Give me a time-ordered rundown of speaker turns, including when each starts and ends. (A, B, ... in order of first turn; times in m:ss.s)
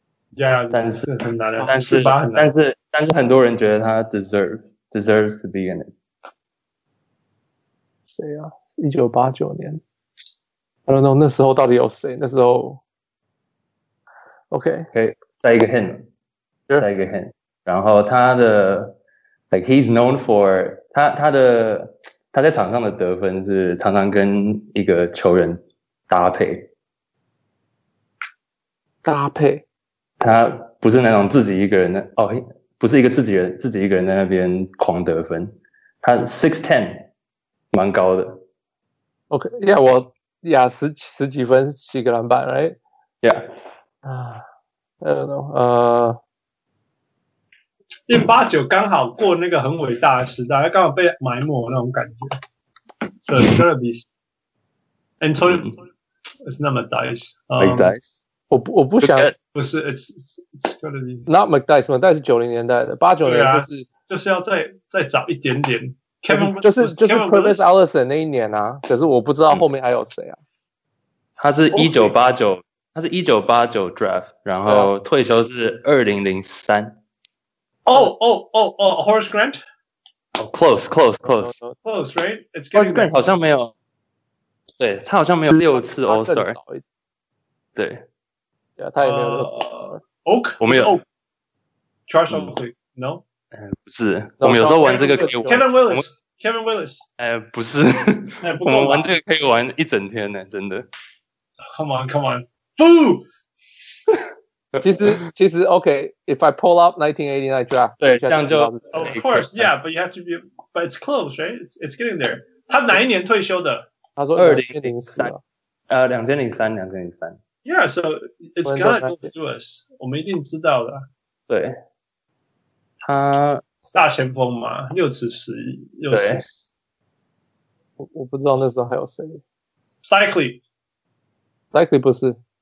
0:00.4-0:02.5 A
0:00.7-0:01.1 B
0:01.6-0:05.9 B
0:08.1-0:09.8 C
0:10.9-0:12.8 C
0:14.5-0:14.9 C
0:14.9-0:16.1 B
0:16.8-0:19.0 B
0:19.5-0:26.7 B
0:29.0-0:29.6 C
0:30.2-0:37.1 B
0:37.7-0:38.4 B
0:39.3-0:42.8 C
0:44.0-0:44.4 C
0:45.0-0:46.2 C
0:48.1-0:52.4 A
0:53.2-0:54.1 A
0:55.2-0:55.8 A
0:55.5-0:55.7 B
0:56.4-0:57.9 A
0:57.6-0:58.3 B
0:58.5-0:59.3 C
0:59.0-0:59.4 B
0:59.5-1:01.3 A
1:01.3-1:03.9 C
1:03.2-1:07.7 A
1:06.3-1:10.4 C
1:11.4-1:17.0 B
1:11.7-1:12.1 C
1:14.7-1:14.9 C
1:17.9-1:19.6 A
1:20.4-1:21.6 B
1:21.4-1:21.8 C
1:21.8-1:23.4 A
1:22.8-1:23.7 B
1:24.8-1:26.6 B
1:26.0-1:26.8 C
1:27.8-1:28.1 B
1:28.8-1:30.0 C
1:29.0-1:31.0 A
1:30.6-1:31.0 B
1:32.1-1:33.2 A
1:33.5-1:36.0 B
1:34.4-1:34.8 C
1:34.6-1:37.0 A
1:37.2-1:40.9 B
1:38.4-1:39.1 A
1:41.6-1:43.3 A
1:44.7-1:45.2 B
1:44.8-1:49.2 C
1:48.0-1:49.7 B
1:48.9-1:53.9 A
1:54.2-1:55.4 C
1:54.4-1:55.4 B
1:55.9-1:57.4 B
1:57.6-2:01.1 A
1:58.6-1:59.3 C
2:01.5-2:01.8 B
2:03.0-2:03.6 B
2:03.9-2:06.7 A
2:06.1-2:06.4 B
2:08.0-2:09.4 C
2:10.0-2:10.6 A
2:11.7-2:12.4 C